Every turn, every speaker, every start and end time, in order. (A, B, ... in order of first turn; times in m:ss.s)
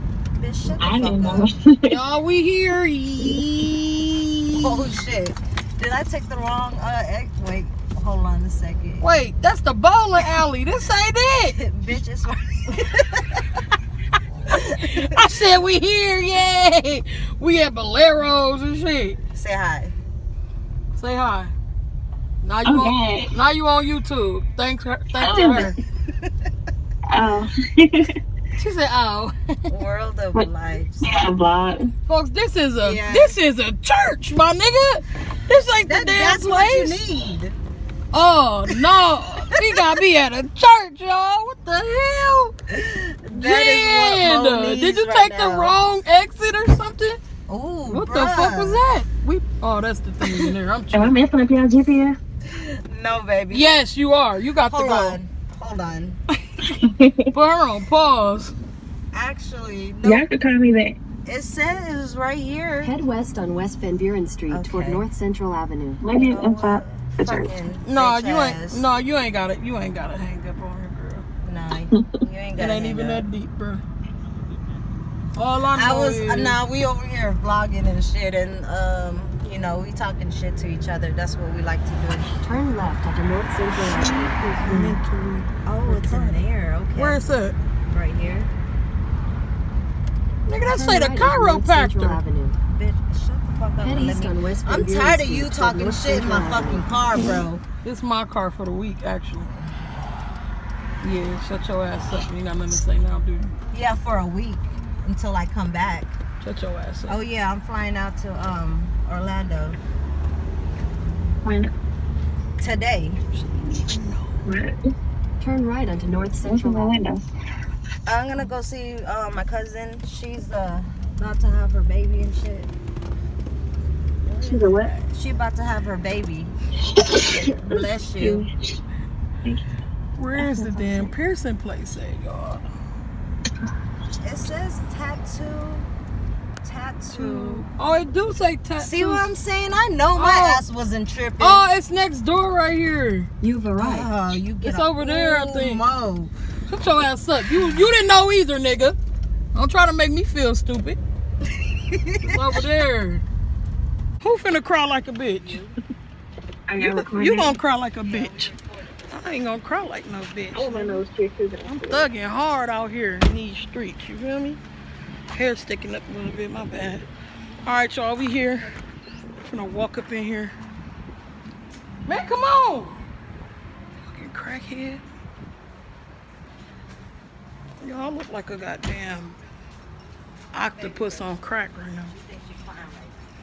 0:00.3-0:01.5 A
0:00.8-0:02.0 B
0:01.9-0:04.9 C
0:04.6-0:09.1 A
0:09.0-0:11.6 C
0:11.6-0:13.4 A
0:14.5-0:19.2 C
0:14.8-0:15.2 A
0:19.3-0:19.9 A
0:20.9-0:21.5 C
0:22.4-0:25.7 C
0:22.6-0:23.4 B
0:25.2-0:25.7 B
0:27.1-0:28.1 B
0:28.6-0:29.4 C
0:29.7-0:31.0 A
0:30.3-0:31.9 B
0:32.1-0:37.0 C
0:32.8-0:33.4 A
0:35.8-0:37.6 A
0:38.1-0:42.5 C
0:42.7-0:45.8 A
0:43.3-0:47.2 C
0:47.5-0:48.8 A
0:47.9-0:51.1 C
0:50.9-0:52.2 B
0:52.5-0:53.8 A
0:53.5-0:55.2 C
0:54.6-0:56.2 A
0:56.7-0:57.3 B
0:57.3-0:58.5 C
0:59.1-1:00.3 A
1:00.0-1:01.0 B
1:01.2-1:03.0 A
1:02.8-1:06.1 D
1:04.5-1:05.1 A
1:06.0-1:07.6 B
1:06.2-1:08.8 A
1:07.8-1:11.2 C
1:11.4-1:13.3 A
1:12.6-1:13.8 C
1:15.4-1:16.6 C
1:15.7-1:22.3 A
1:22.4-1:25.0 D
1:24.0-1:26.4 C
1:25.6-1:27.2 A
1:27.0-1:27.6 C
1:27.9-1:28.5 A
1:30.4-1:32.2 C
1:30.6-1:32.6 D
1:32.6-1:37.6 A
1:33.8-1:36.9 D
1:37.8-1:39.5 C
1:41.0-1:43.6 C
1:43.7-1:46.1 A
1:46.4-1:47.2 C
1:47.1-1:49.8 A
1:51.4-1:51.7 B
1:52.6-1:53.2 A
1:53.3-1:54.4 C
1:54.4-1:54.8 B
1:55.4-1:57.0 D
1:56.4-1:57.3 B
1:58.0-2:02.7 A
2:04.2-2:06.5 A
2:04.4-2:04.9 B
2:07.1-2:08.5 B
2:07.3-2:08.4 A
2:10.2-2:12.6 C
2:10.3-2:11.1 B
2:14.2-2:15.9 A
2:16.6-2:17.6 A
2:17.1-2:19.3 C
2:18.8-2:21.6 A
2:20.1-2:20.6 C
2:21.4-2:23.3 C
2:23.4-2:24.1 D
2:23.8-2:26.3 A
2:24.6-2:25.8 C
2:26.7-2:29.0 C
2:29.5-2:31.0 C
2:31.9-2:32.3 A
2:32.2-2:33.2 C
2:34.2-2:35.6 C
2:35.3-2:35.8 A
2:36.7-2:37.6 B
2:36.8-2:38.5 C
2:38.0-2:39.1 A
2:39.1-2:41.0 C
2:40.5-2:42.1 B
2:41.7-2:44.6 C
2:45.3-2:47.0 C
2:47.6-2:48.7 C
2:49.4-2:50.5 C
2:52.0-2:53.0 C
2:54.0-2:55.0 C
2:57.8-2:59.4 C
3:00.5-3:02.1 C
3:00.7-3:01.4 A
3:02.0-3:03.2 A